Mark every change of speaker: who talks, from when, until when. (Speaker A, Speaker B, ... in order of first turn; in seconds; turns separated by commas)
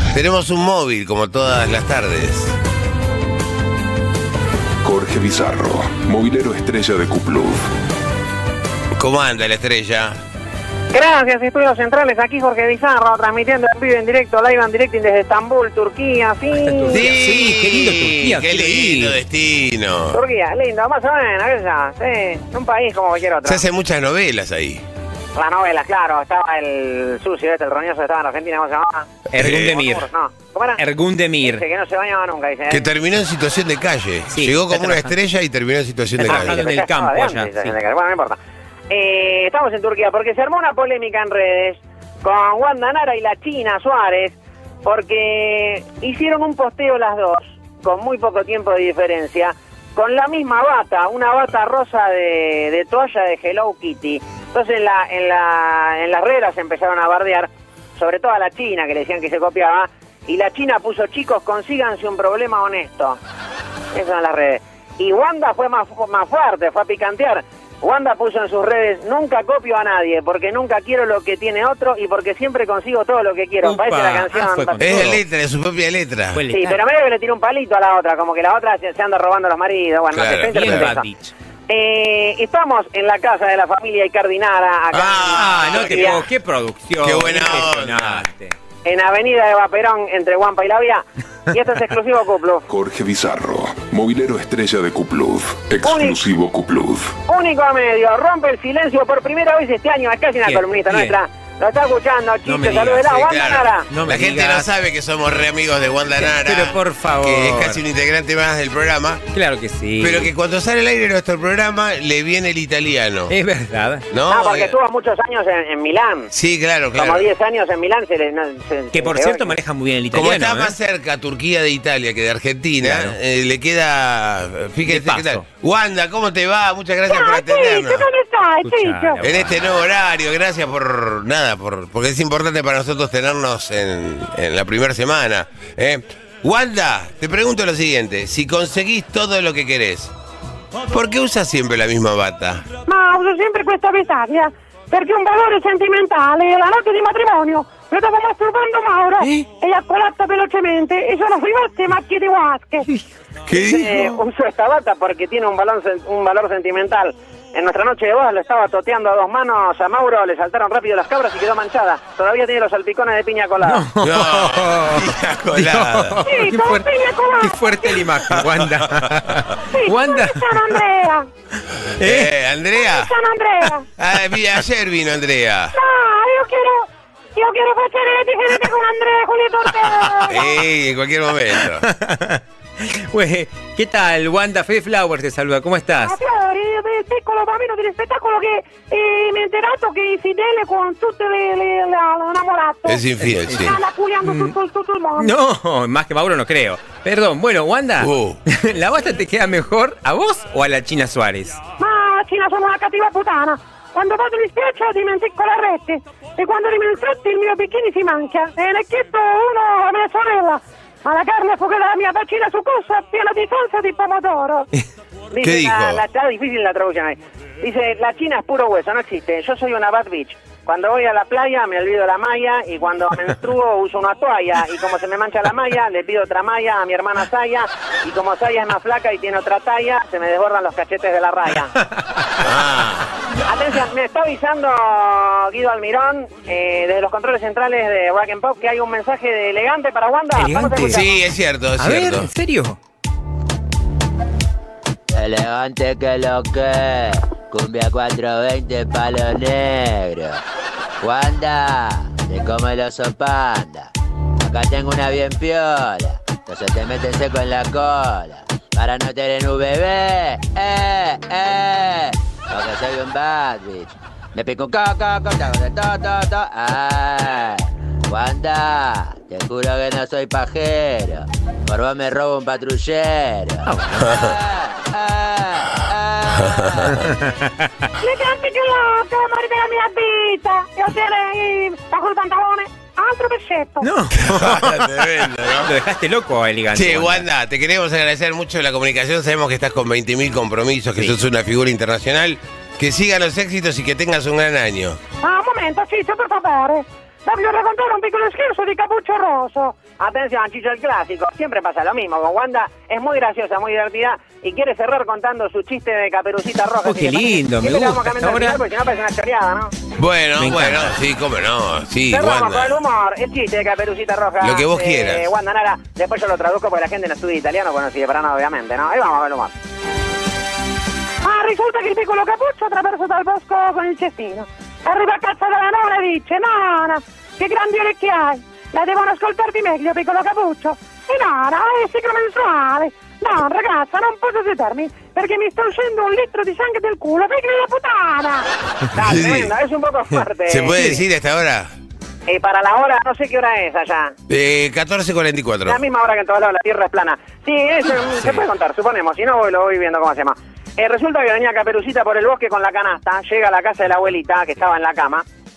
Speaker A: 0.1-2.5, Speaker B: 4.8-7.6, Speaker A: 9.0-10.2, Speaker C: 10.9-17.1, Speaker D: 16.5-19.2, Speaker A: 16.9-20.2, Speaker C: 20.1-23.6, Speaker A: 23.4-24.8, Speaker C: 25.3-30.8, Speaker D: 29.3-30.1, Speaker A: 29.3-29.8, Speaker D: 30.8-31.6, Speaker C: 31.4-32.9, Speaker A: 32.7-36.6, Speaker D: 34.3-35.1, Speaker D: 36.2-37.8, Speaker C: 36.3-38.4, Speaker C: 38.9-63.2, Speaker C: 63.9-75.1, Speaker D: 73.6-75.2, Speaker A: 74.8-76.4, Speaker D: 76.3-76.8, Speaker C: 76.5-81.1, Speaker A: 80.1-80.9, Speaker D: 80.4-81.3, Speaker C: 81.7-86.2, Speaker A: 84.9-86.2, Speaker D: 85.3-88.5, Speaker A: 87.0-88.2, Speaker C: 88.8-92.7, Speaker B: 92.7-97.1, Speaker C: 95.8-96.2, Speaker C: 97.3-103.9, Speaker D: 100.4-101.2, Speaker D: 102.5-103.2, Speaker A: 103.1-109.2, Speaker D: 103.9-104.7, Speaker D: 106.1-107.8, Speaker D: 109.3-110.3, Speaker A: 110.0-113.4, Speaker D: 113.3-114.1, Speaker A: 114.1-114.8, Speaker C: 114.3-116.3, Speaker A: 116.3-117.3, Speaker C: 116.9-119.5, Speaker D: 118.9-120.8, Speaker A: 120.1-128.1, Speaker D: 122.8-123.1, Speaker D: 124.8-125.4, Speaker C: 127.1-129.2, Speaker D: 128.6-129.7, Speaker A: 129.2-140.1, Speaker A: 140.9-142.6, Speaker C: 142.9-152.9, Speaker A: 153.5-154.1, Speaker C: 153.5-163.8, Speaker D: 163.6-170.8, Speaker A: 164.0-166.2, Speaker C: 166.2-168.2, Speaker C: 169.7-171.3, Speaker A: 172.0-173.1, Speaker D: 172.0-172.3, Speaker C: 172.8-173.8, Speaker A: 174.0-175.8, Speaker C: 175.7-180.6, Speaker D: 179.7-180.2, Speaker A: 180.2-181.8, Speaker D: 181.5-186.2, Speaker C: 186.0-193.0, Speaker A: 192.8-193.8, Speaker D: 193.2-194.6, Speaker C: 193.5-195.3, Speaker D: 195.2-201.6, Speaker A: 198.0-198.4, Speaker C: 201.8-214.7, Speaker C: 215.3-231.7, Speaker A: 215.4-216.0, Speaker A: 232.4-233.1, Speaker C: 233.4-241.2, Speaker D: 240.3-241.0, Speaker A: 240.9-242.3, Speaker D: 241.8-242.8, Speaker E: 245.1-250.4, Speaker E: 251.0-277.1, Speaker D: 273.6-274.2, Speaker D: 276.8-277.5, Speaker C: 278.0-283.9, Speaker D: 283.8-287.3, Speaker A: 284.2-285.7, Speaker A: 286.7-295.0, Speaker C: 295.2-309.7, Speaker D: 306.8-308.6, Speaker A: 309.9-312.8, Speaker D: 310.4-311.0, Speaker C: 312.1-319.5, Speaker A: 314.4-315.3, Speaker C: 321.2-341.0, Speaker A: 338.9-339.5, Speaker A: 340.5-341.7, Speaker C: 342.3-344.1, Speaker A: 344.3-345.8, Speaker C: 345.6-355.2